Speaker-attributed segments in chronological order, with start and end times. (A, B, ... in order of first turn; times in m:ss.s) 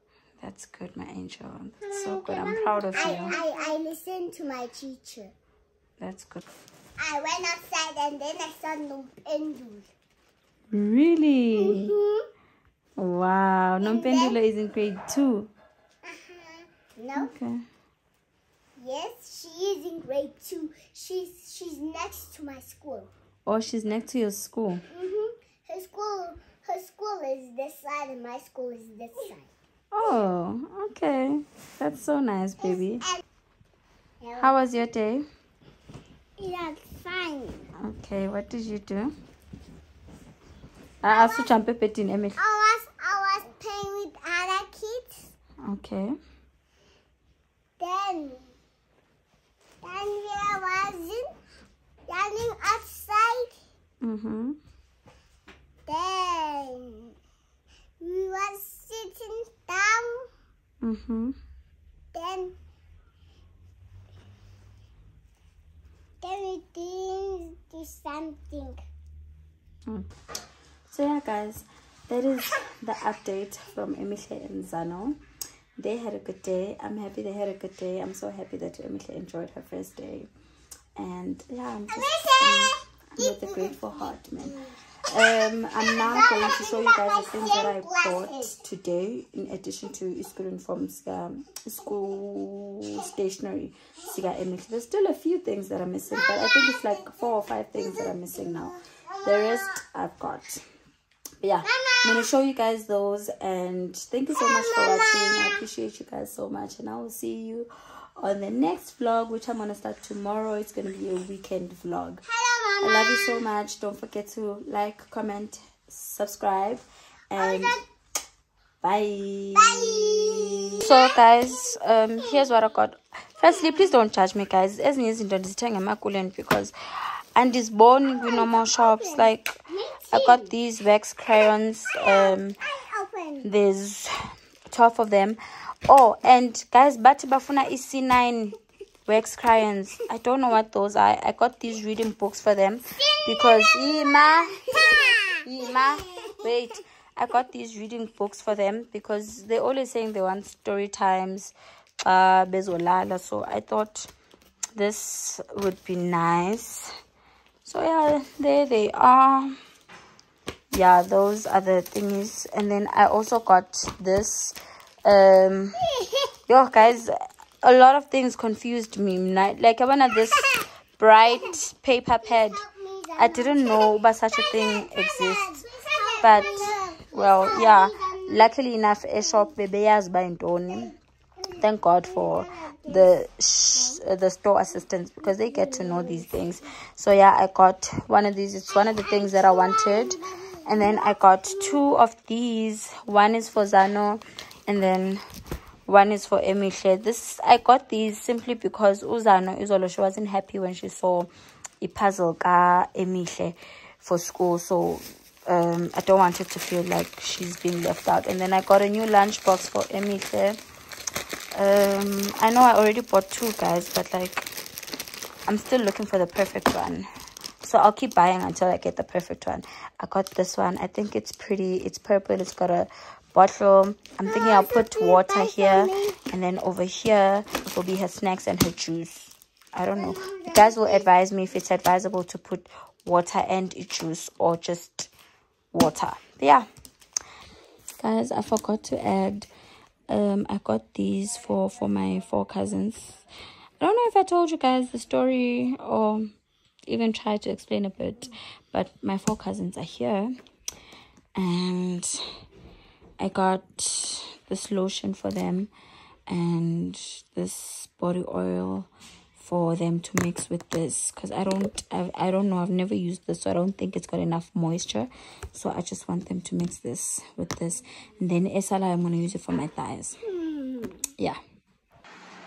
0:00.4-0:03.4 A
0:01.8-0:05.3 B
0:06.0-0:06.4 A
0:07.0-0:09.9 B
0:10.7-0:12.0 A
0:11.6-0:12.2 B
0:13.0-0:15.5 A
0:13.8-0:14.4 B
0:16.0-0:17.3 B
0:17.2-0:17.6 A
0:18.8-0:23.1 B
0:23.4-0:24.8 A
0:24.9-0:29.5 B
0:29.9-0:33.1 A
0:34.2-0:34.5 B
0:34.4-0:35.3 A
0:36.4-0:37.6 B
0:37.8-0:39.1 A
0:41.0-0:42.4 A
0:41.1-0:41.5 B
0:42.4-0:45.3 B
0:45.6-0:46.1 A
0:47.8-0:48.5 B
0:49.8-0:51.3 B
0:52.1-0:53.6 B
0:54.0-0:54.6 A
0:55.8-0:57.1 B
0:58.0-1:00.3 B
1:00.8-1:01.4 A
1:02.1-1:02.5 B
1:06.2-1:08.8 B
1:10.9-1:15.2 A
1:15.8-1:20.3 A
1:21.0-1:40.6 A
1:22.0-1:23.7 B
1:25.8-1:28.5 B
1:41.4-1:52.2 A
1:44.5-1:45.5 B
1:52.3-1:53.4 B
1:52.8-1:57.8 A
1:57.4-1:57.8 B
1:58.8-2:06.7 A
1:59.6-2:01.0 B
2:07.3-2:12.6 A
2:08.1-2:10.5 B
2:12.0-2:13.5 B
2:13.4-2:14.1 A
2:14.7-2:34.1 A
2:23.0-2:25.4 B
2:34.7-2:36.9 A
2:37.6-2:39.6 A
2:40.7-2:45.8 A
2:45.8-2:46.3 B
2:46.5-2:52.6 A
2:52.2-2:58.4 B
2:53.2-2:55.6 A
2:56.2-3:00.9 A
3:01.4-3:03.1 B
3:01.6-3:15.2 A
3:09.4-3:10.9 B
3:15.8-3:21.3 A
3:21.8-3:30.6 A
3:31.5-3:34.5 A
3:35.4-3:37.1 A
3:37.6-3:55.1 A
3:44.2-3:46.2 B
3:50.0-3:51.0 B
3:55.7-3:56.7 A
3:58.0-3:59.5 A
4:00.1-4:03.2 A
4:03.8-4:06.3 A
4:06.9-4:10.3 A
4:11.4-4:12.3 A
4:13.2-4:15.7 A
4:16.3-4:30.2 A
4:30.3-4:31.0 B